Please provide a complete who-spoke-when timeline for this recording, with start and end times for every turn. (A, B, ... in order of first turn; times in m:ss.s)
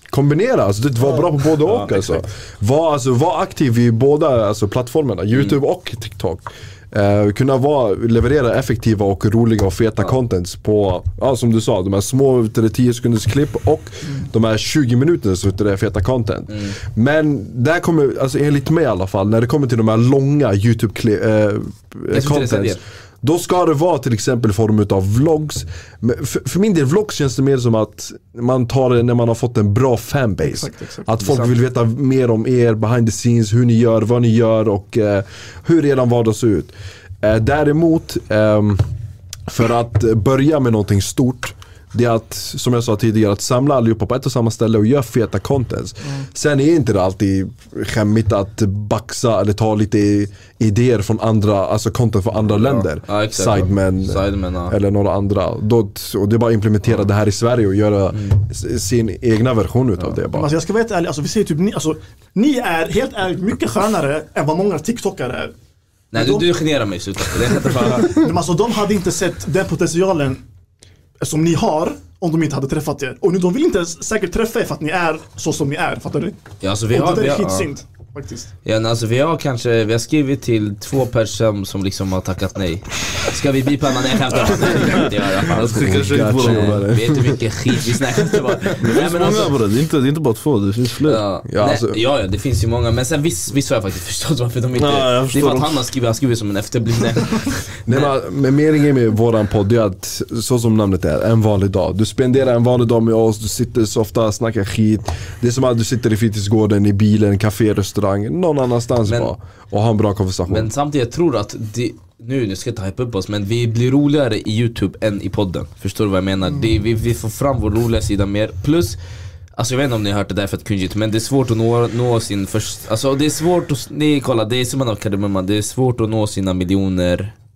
0:00.1-0:38.9 A
0:01.0-0:01.4 B
0:22.1-0:22.8 C
0:30.4-0:31.1 B
0:39.5-1:00.5 A
0:52.5-0:54.7 C
1:00.2-1:05.5 B
1:06.1-1:08.2 C
1:06.1-1:06.5 B
1:08.0-1:10.4 B
1:11.2-1:16.4 B
1:16.6-1:17.7 C
1:16.9-1:18.5 B
1:18.6-1:29.5 C
1:24.9-1:26.9 D
1:25.5-1:27.4 A
1:28.8-1:31.2 D
1:31.1-1:38.1 C
1:31.5-1:32.0 A
1:34.8-1:35.8 D
1:37.9-1:50.7 A
1:50.5-1:59.0 C
1:59.6-2:07.3 C